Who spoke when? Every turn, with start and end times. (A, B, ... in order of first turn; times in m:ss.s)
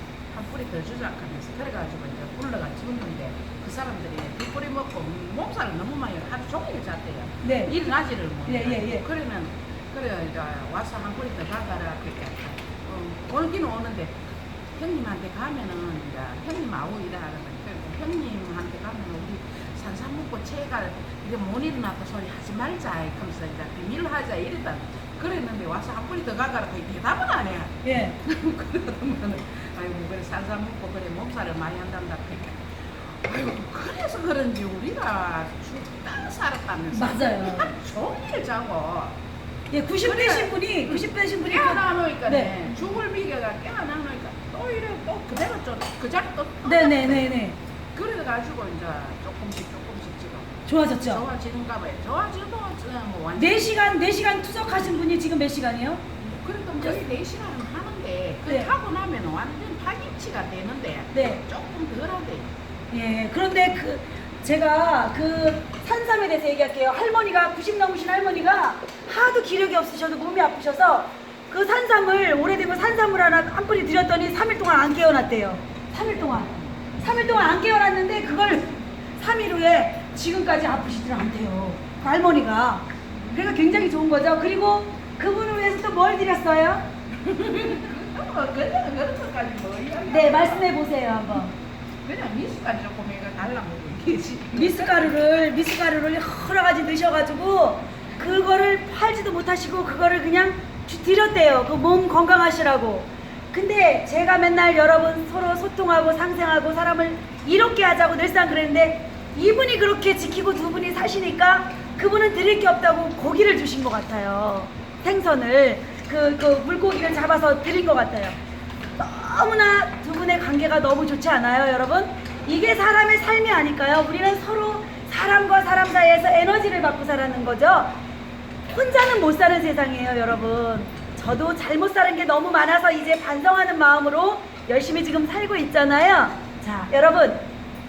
0:00.3-0:14.1 A
0:07.4-0:07.7 B
0:08.5-0:09.0 B
0:14.8-0:32.6 A
0:27.8-0:28.2 B
0:33.1-0:39.1 A
0:36.9-0:37.7 B
0:39.7-0:42.6 B
0:40.0-0:47.4 A
0:46.6-0:47.6 B
0:48.0-0:53.7 A
0:50.7-0:51.2 B
0:53.4-0:56.0 B
0:56.2-1:02.5 A
1:01.1-1:01.4 B
1:02.9-1:26.8 B
1:27.2-1:30.6 A
1:30.1-1:31.5 B
1:32.0-1:35.1 A
1:34.5-1:58.4 B
1:59.0-2:07.9 B
2:08.7-2:17.5 B